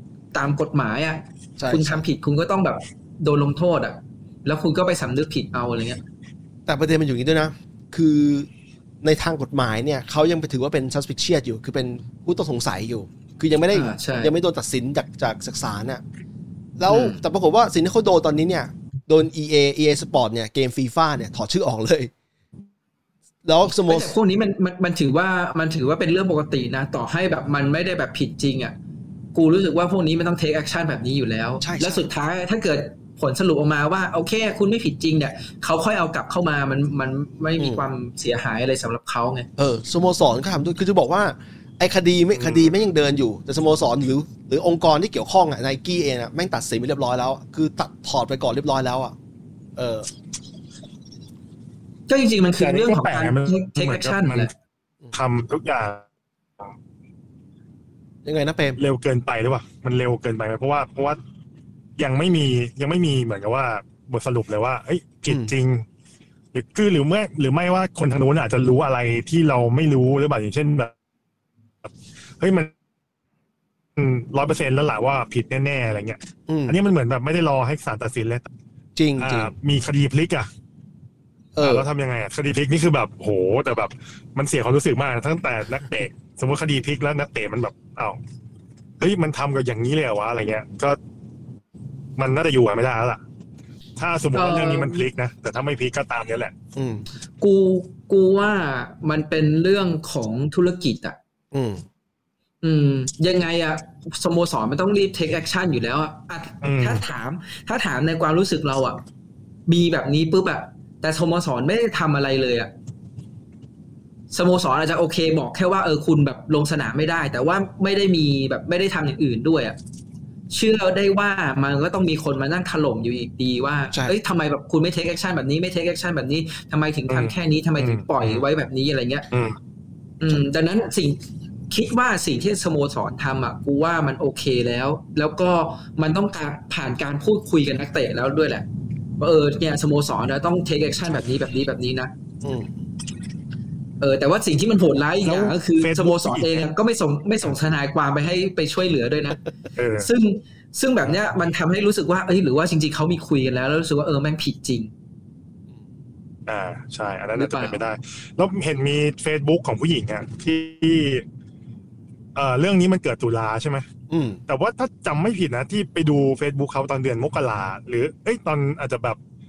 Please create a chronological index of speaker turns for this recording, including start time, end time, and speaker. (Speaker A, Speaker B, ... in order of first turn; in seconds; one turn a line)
Speaker A: 0.3-6.0
Speaker B: 1.6-2.0
Speaker B: 6.7-8.5
Speaker B: 9.0-16.0
Speaker A: 13.7-14.3
Speaker B: 16.8-22.1
Speaker A: 16.9-17.2
Speaker B: 23.4-24.2
Speaker A: 23.9-28.8
Speaker A: 29.3-39.5
Speaker B: 31.6-32.1
Speaker B: 37.6-37.9
Speaker B: 39.6-49.1
Speaker C: 42.4-42.7
Speaker B: 49.8-50.1
Speaker A: 52.1-54.5
Speaker C: 52.6-54.5
Speaker C: 55.1-56.1
Speaker B: 58.2-58.8
Speaker C: 58.8-61.2
Speaker C: 62.0-65.8
Speaker C: 66.5-70.9
Speaker C: 71.8-72.7
Speaker C: 74.0-78.5
Speaker B: 76.5-76.8
Speaker B: 79.0-79.5
Speaker C: 79.2-80.5
Speaker B: 81.6-81.9
Speaker C: 81.6-88.2
Speaker C: 89.0-91.0
Speaker C: 92.2-93.2
Speaker C: 94.0-96.5
Speaker A: 94.3-95.0
Speaker B: 96.8-97.0
Speaker A: 97.4-101.2
Speaker B: 101.5-101.8
Speaker A: 102.6-109.0
Speaker C: 106.6-107.0
Speaker A: 109.7-112.7
Speaker A: 114.3-119.8
Speaker A: 120.5-129.3
Speaker C: 127.1-128.4
Speaker C: 129.3-129.6
Speaker A: 130.2-138.7
Speaker A: 139.2-142.1
Speaker B: 142.4-142.8
Speaker A: 144.0-149.4
Speaker C: 145.2-146.7
Speaker C: 149.8-150.1
Speaker A: 150.0-154.9
Speaker C: 156.5-161.2
Speaker A: 157.3-157.8
Speaker C: 162.3-163.8
Speaker B: 164.1-164.4
Speaker C: 164.5-169.2